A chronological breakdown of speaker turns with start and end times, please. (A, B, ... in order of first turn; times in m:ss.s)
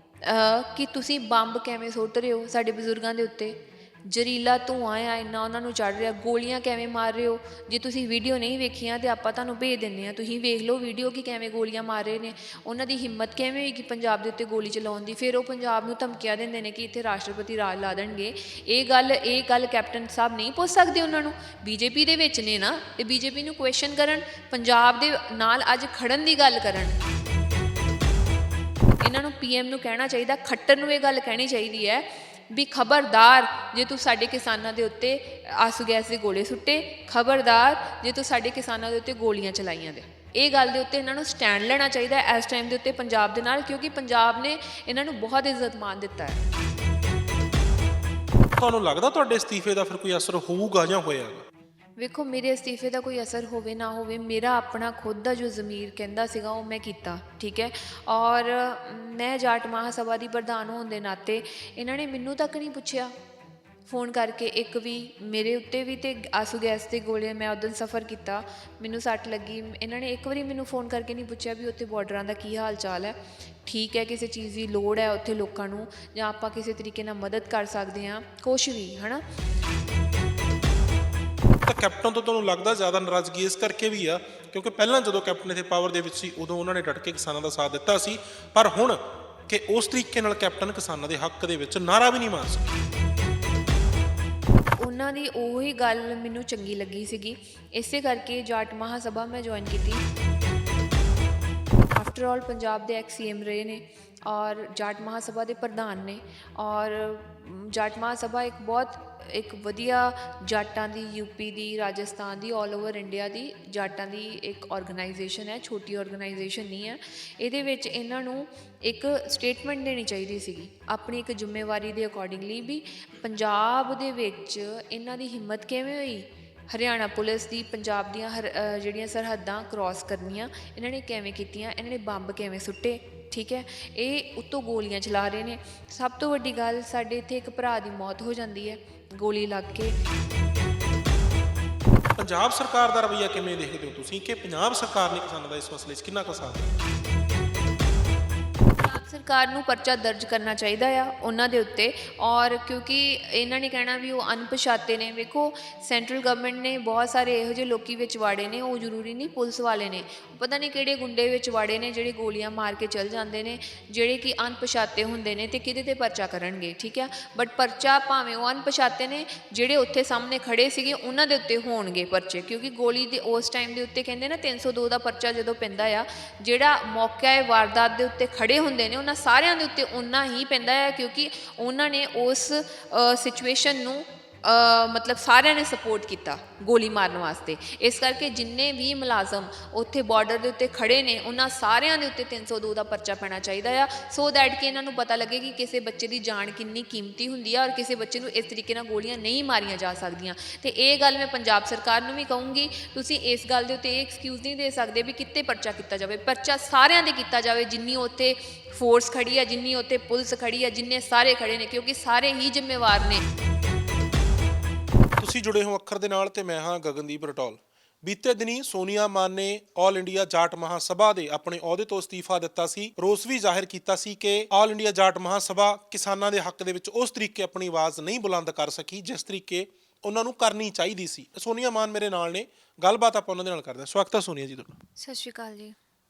0:00.2-0:27.0 A
0:29.0-0:46.4 A
0:48.6-0:51.4 B
0:52.0-1:03.1 A
1:03.9-1:19.2 A
1:21.6-1:32.7 B
1:34.8-1:40.0 A
1:41.9-2:20.0 A
2:22.2-2:26.8 B
2:28.8-3:33.2 A
3:35.2-3:54.8 B
3:55.0-3:55.8 A